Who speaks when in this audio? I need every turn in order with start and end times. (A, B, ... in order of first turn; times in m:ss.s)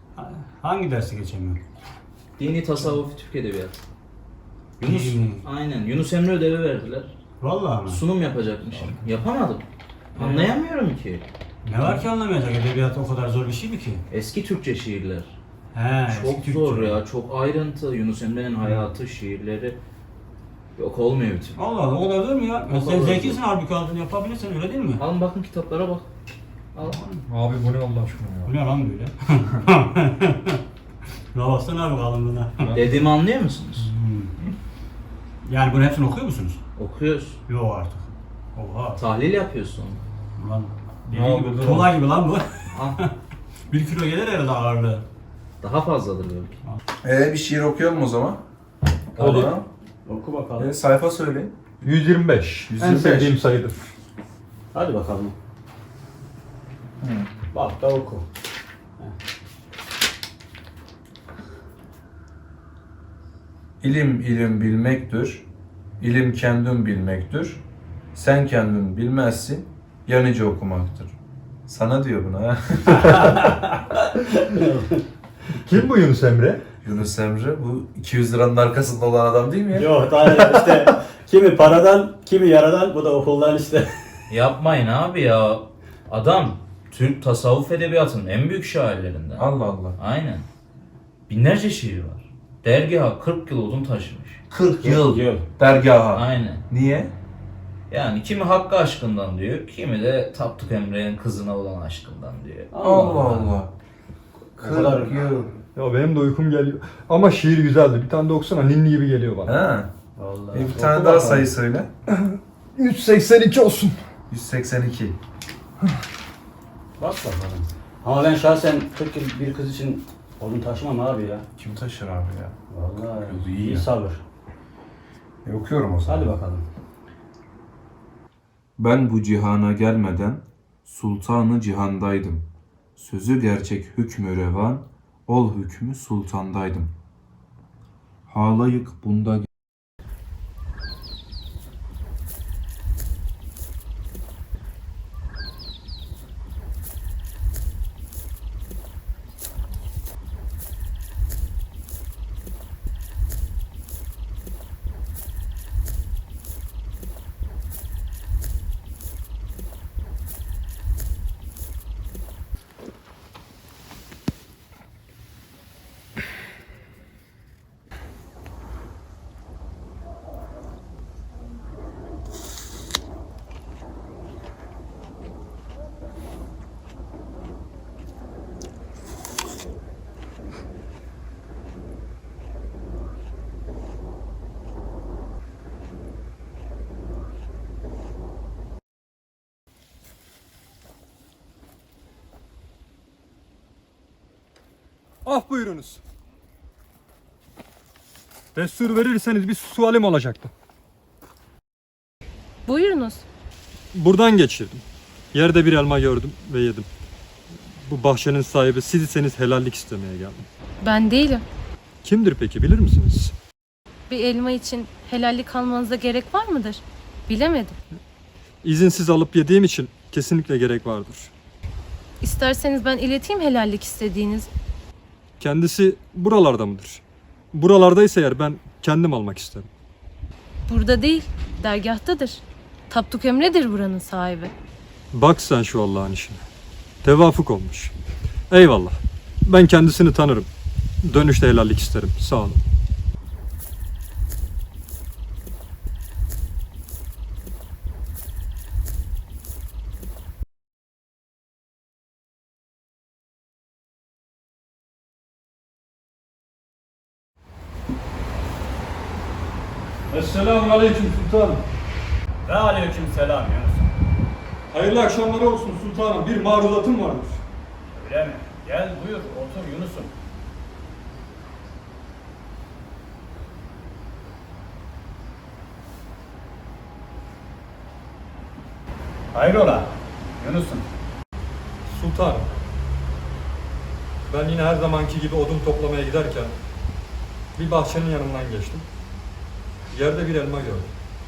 0:00.1-0:01.6 A
0:02.4-0:03.8 B
0:04.8-0:07.1 B
0:04.8-0:05.4 A
0:07.4-0:08.0 A
0:07.9-0:09.6 B
0:08.7-0:09.0 A
0:10.2-0:10.5 A
0:10.2-0:11.2 B
0:11.6-0:14.0 A
0:14.1-0:15.3 B
0:15.7-0:17.0 A
0:16.1-0:19.8 B
0:20.8-0:21.6 B
0:21.6-0:25.0 A
0:22.6-0:23.4 B
0:25.0-0:26.1 B
0:26.7-0:27.0 B
0:26.8-0:27.2 A
0:27.2-0:28.5 C
0:28.4-0:30.6 A
0:31.3-0:32.8 A
0:32.6-0:33.0 C
0:32.7-0:33.9 B
0:33.8-0:34.4 A
0:35.4-0:36.6 A
0:36.8-0:37.4 B
0:37.5-0:39.0 A
0:39.0-0:40.0 B
0:40.4-0:43.1 A
0:41.1-0:42.0 C
0:43.7-0:45.0 A
0:45.6-0:46.6 B
0:47.0-0:48.4 D
0:49.2-0:49.6 D
0:49.2-0:49.5 C
0:50.0-0:50.7 A
0:50.6-0:51.5 D
0:51.8-0:53.9 C
0:52.7-0:53.4 D
0:54.7-0:55.4 A
0:57.0-0:57.3 D
0:57.5-0:58.3 A
1:03.8-1:05.5 D
1:06.0-1:07.6 D
1:08.1-1:13.5 D
1:13.0-1:15.0 A
1:15.6-1:16.6 C
1:16.8-1:19.9 D
1:19.7-1:23.9 A
1:24.3-1:30.4 B
1:29.4-1:30.0 D
1:31.3-1:34.4 B
1:34.5-1:37.1 D
1:34.8-1:35.5 A
1:36.1-1:36.6 B
1:37.9-1:42.7 B
1:42.7-1:43.5 A
1:42.8-1:43.7 D
1:44.6-1:45.4 A
1:44.6-1:45.5 D
1:45.8-1:49.5 C
1:49.4-1:49.9 D
1:50.2-1:51.5 A
1:50.5-1:51.9 D
1:52.1-1:54.0 C
1:54.3-1:55.2 D
1:57.0-2:01.4 A
2:01.6-2:02.6 D
2:02.7-2:04.2 A
2:03.1-2:03.9 D
2:05.4-2:06.3 D
2:06.0-2:06.6 A
2:08.8-2:16.9 D
2:18.3-2:19.5 D
3:15.2-3:16.0 C
3:18.5-3:20.5 C
3:22.7-3:23.2 E
3:23.9-3:26.9 C
3:27.8-3:30.5 C
3:30.8-3:31.4 E
3:32.0-3:33.3 C
3:34.1-3:37.8 E
3:38.6-3:41.3 C
3:42.2-3:44.5 E
3:45.4-3:49.7 C
3:50.7-3:54.5 E
3:55.1-3:56.4 C
3:57.0-3:57.9 C
3:58.5-4:00.5 C
4:01.0-4:02.6 C
4:20.1-4:21.6 C
4:22.4-4:23.9 A
4:24.7-4:27.4 C
4:27.9-4:30.1 A
4:39.3-4:40.9 A
4:41.9-4:42.5 C
4:44.3-4:46.5 C
4:47.6-4:48.8 C
4:49.9-4:50.9 C